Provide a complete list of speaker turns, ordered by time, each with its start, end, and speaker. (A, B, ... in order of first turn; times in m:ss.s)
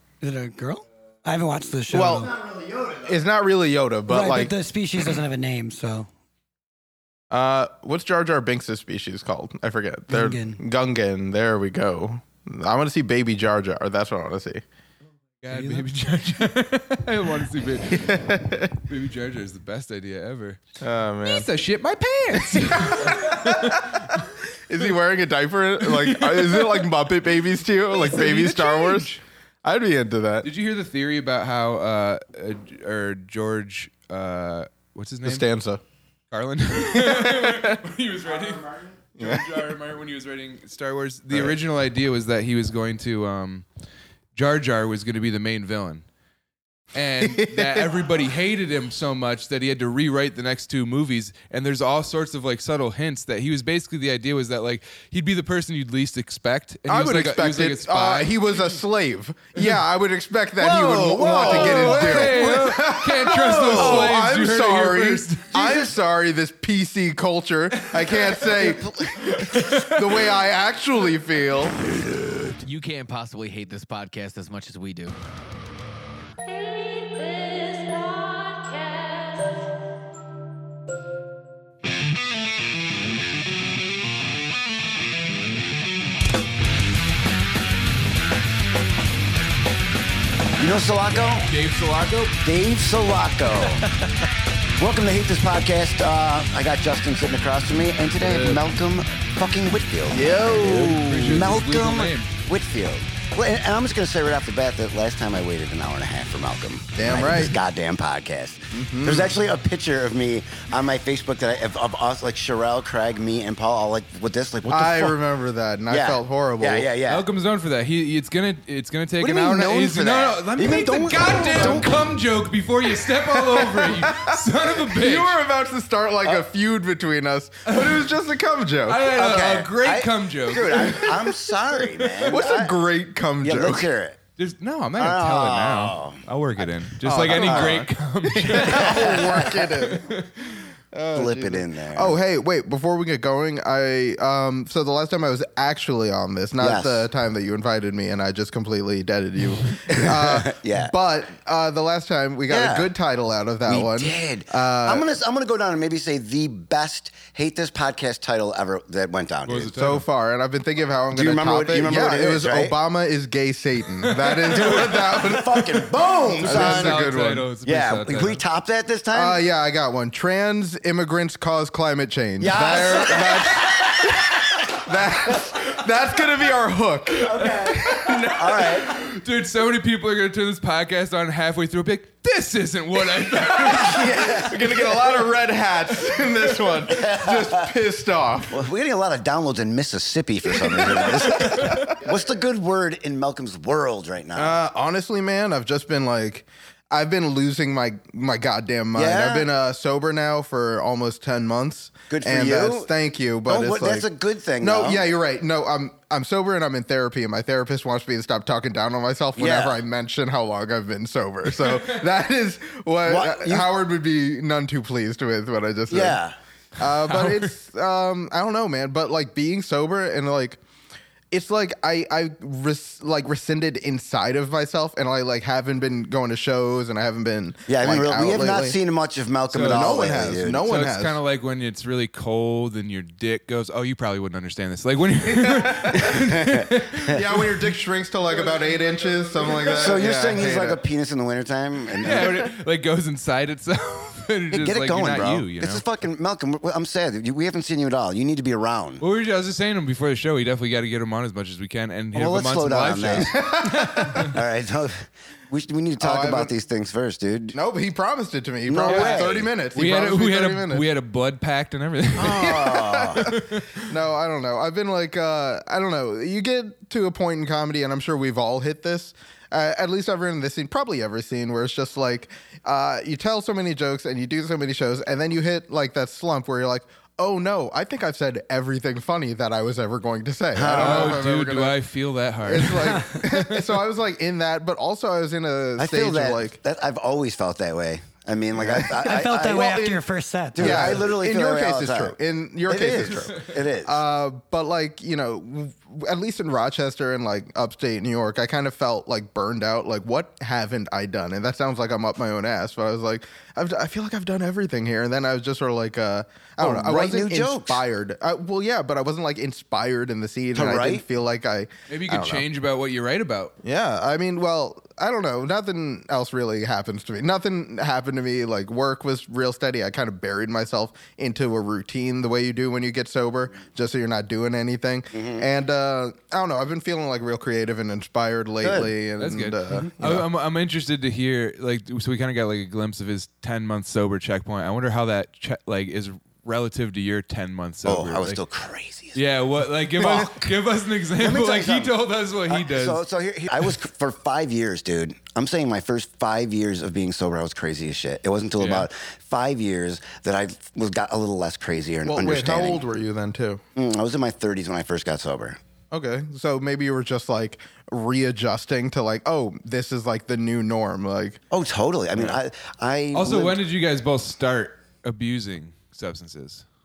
0:00.2-0:02.4 A
0:01.9-0:04.5 B
0:04.1-0:06.1 A
0:07.3-0:14.6 B
0:10.1-0:10.6 A
0:15.4-0:20.6 C
0:15.5-0:15.9 A
0:17.9-0:18.8 B
0:20.8-0:21.5 B
0:21.2-0:24.3 C
0:22.4-0:30.5 B
0:25.8-0:26.9 C
0:27.9-0:29.2 C
0:30.4-0:35.5 C
0:35.2-0:35.8 B
0:36.3-0:43.7 C
0:36.9-0:37.8 B
0:39.2-0:39.7 B
0:44.4-0:46.0 C
0:46.9-0:58.8 C
0:47.2-0:47.9 B
0:56.9-1:11.8 B
1:00.6-1:02.8 D
1:01.4-1:05.6 C
1:03.6-1:04.2 D
1:05.5-1:06.0 D
1:08.3-1:09.6 D
1:12.6-1:15.2 E
1:17.2-1:19.3 E
1:30.6-1:31.5 D
1:31.3-1:32.4 C
1:32.4-1:33.9 D
1:34.8-1:55.2 D
1:38.2-1:38.6 C
1:40.1-1:41.5 B
1:40.9-1:42.3 C
1:47.0-1:47.6 B
1:48.7-1:49.4 B
1:54.7-1:56.9 B
1:55.9-1:57.3 D
1:57.1-2:05.4 C
1:59.2-2:02.0 D
2:01.6-2:01.8 B
2:03.3-2:09.1 B
2:07.7-2:08.1 C
2:08.9-2:11.2 C
2:09.1-2:12.8 D
2:10.9-2:11.4 B
2:12.3-2:13.9 B
2:13.4-2:14.2 D
2:14.4-2:20.6 C
2:15.0-2:16.6 D
2:17.0-2:20.1 B
2:17.4-2:17.8 D
2:18.6-2:19.7 D
2:20.9-2:35.1 B
2:21.1-2:22.2 D
2:26.6-2:27.1 D
2:29.9-2:30.9 D
2:32.5-2:32.9 D
2:33.7-2:39.7 D
2:39.5-2:40.0 C
2:39.7-2:45.8 B
2:41.1-2:42.8 D
2:44.0-2:45.1 C
2:44.5-2:47.0 D
2:46.3-2:48.4 C
2:46.4-2:47.5 B
2:47.6-2:49.4 D
2:49.1-2:58.7 B
2:52.4-2:54.5 D
2:57.2-2:59.0 D
2:58.6-3:04.4 C
3:03.6-3:05.0 D
3:03.8-3:08.6 B
3:06.9-3:07.7 D
3:08.5-3:14.6 D
3:10.6-3:12.0 B
3:14.4-3:24.1 B
3:19.0-3:19.5 D
3:22.1-3:22.9 D
3:23.5-3:25.1 D
3:24.6-3:36.2 B
3:29.4-3:29.8 D
3:33.1-3:33.7 D
3:35.9-3:36.4 D
3:36.8-3:40.6 B
3:37.1-3:37.5 C
3:41.3-3:48.8 B
3:47.7-3:50.6 D
3:49.5-3:51.2 B
3:49.5-3:57.4 C
3:55.3-3:56.3 B
3:56.1-3:57.1 D
3:57.0-4:00.8 B
3:59.5-3:59.9 C
3:59.7-4:02.5 D
4:02.0-4:05.8 C
4:04.5-4:09.0 D
4:09.0-4:14.4 C
4:12.1-4:17.6 D
4:13.3-4:14.3 B
4:16.0-4:16.5 B
4:17.5-4:20.9 B
4:18.7-4:19.5 D
4:18.8-4:23.9 C
4:22.2-4:23.3 D
4:22.3-4:41.8 B
4:40.5-4:41.2 D
4:40.7-4:43.8 C
4:42.4-4:46.6 B
4:45.8-4:49.8 D
4:48.6-4:50.0 B
4:48.9-4:51.0 A
4:50.5-4:52.2 D
4:50.6-5:12.4 B
4:52.7-4:54.0 D
5:06.6-5:07.8 D
5:10.6-5:11.0 D
5:11.9-5:13.5 C
5:13.6-5:30.3 B
5:25.1-5:25.4 D
5:28.6-5:28.9 D
5:29.2-5:38.4 C
5:37.8-5:39.2 D
5:39.1-5:43.0 C
5:40.0-5:40.5 D
5:41.2-5:52.8 D
5:48.6-5:48.9 C
5:52.1-5:53.6 B
5:53.8-5:55.6 D
5:55.9-6:01.4 B
6:01.5-6:03.6 D
6:03.1-6:06.6 C